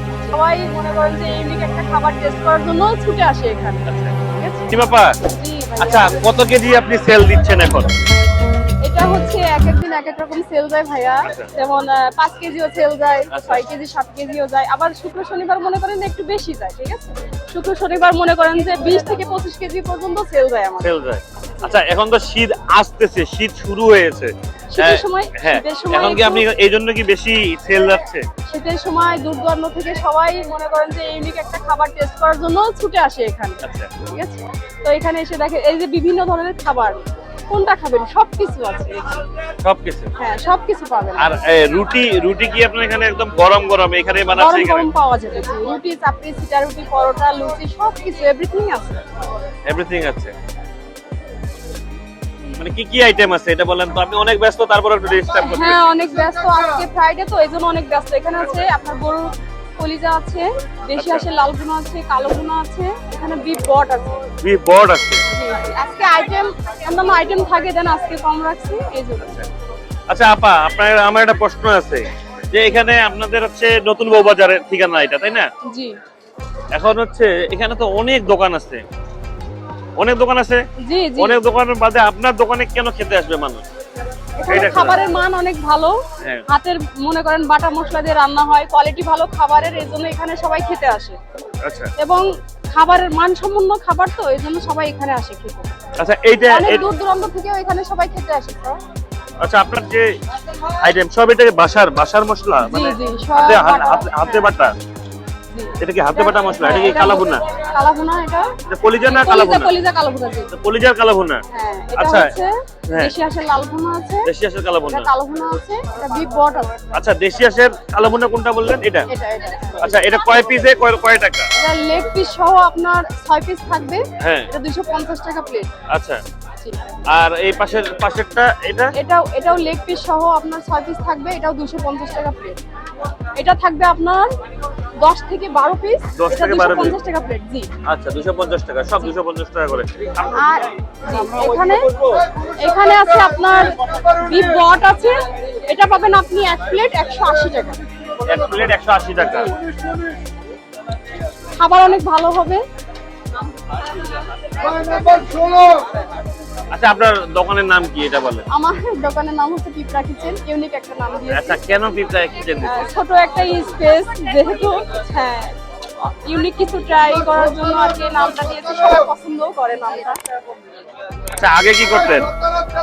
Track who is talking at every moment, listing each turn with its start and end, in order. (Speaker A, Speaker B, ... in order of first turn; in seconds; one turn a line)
Speaker A: 0.2-4.7
Speaker B: 3.9-4.1
Speaker B: 4.7-5.2
Speaker A: 5.2-6.1
Speaker B: 5.8-7.9
Speaker A: 8.8-20.9
Speaker B: 11.2-11.5
Speaker B: 13.3-13.6
Speaker B: 20.8-28.2
Speaker A: 24.7-26.5
Speaker A: 28.4-37.0
Speaker B: 33.6-33.9
Speaker A: 37.5-39.2
Speaker B: 39.6-40.1
Speaker A: 40.2-41.3
Speaker B: 41.2-44.9
Speaker A: 44.3-49.0
Speaker B: 49.7-50.3
Speaker B: 52.6-55.8
Speaker A: 55.4-64.3
Speaker B: 61.0-61.3
Speaker B: 64.4-65.2
Speaker A: 65.3-69.4
Speaker B: 69.2-69.5
Speaker B: 70.1-75.5
Speaker A: 75.6-76.0
Speaker B: 76.7-78.8
Speaker B: 80.0-80.6
Speaker A: 80.8-81.4
Speaker B: 81.2-83.7
Speaker A: 84.4-91.2
Speaker B: 84.5-85.0
Speaker B: 91.6-91.9
Speaker A: 92.0-95.7
Speaker B: 96.0-96.8
Speaker A: 96.5-98.8
Speaker B: 99.4-100.1
Speaker B: 100.8-104.7
Speaker A: 102.7-104.5
Speaker A: 105.5-108.5
Speaker B: 105.8-107.4
Speaker B: 108.7-109.7
Speaker A: 109.0-110.5
Speaker B: 110.5-111.4
Speaker A: 111.5-114.3
Speaker B: 112.0-112.3
Speaker B: 114.2-115.1
Speaker A: 114.9-116.7
Speaker B: 116.9-119.1
Speaker A: 119.1-120.0
Speaker B: 119.8-121.5
Speaker A: 121.6-125.7
Speaker B: 124.2-124.5
Speaker B: 125.9-126.2
Speaker B: 127.1-128.9
Speaker A: 128.9-132.6
Speaker A: 133.4-134.3
Speaker A: 135.0-137.7
Speaker B: 136.2-137.0
Speaker B: 137.8-142.2
Speaker A: 140.3-141.9
Speaker A: 142.6-147.8
Speaker B: 148.2-149.5
Speaker A: 151.6-152.6
Speaker A: 154.7-155.6
Speaker B: 156.7-158.4
Speaker A: 158.5-161.6
Speaker B: 161.3-162.9
Speaker A: 162.6-170.2
Speaker B: 171.4-172.3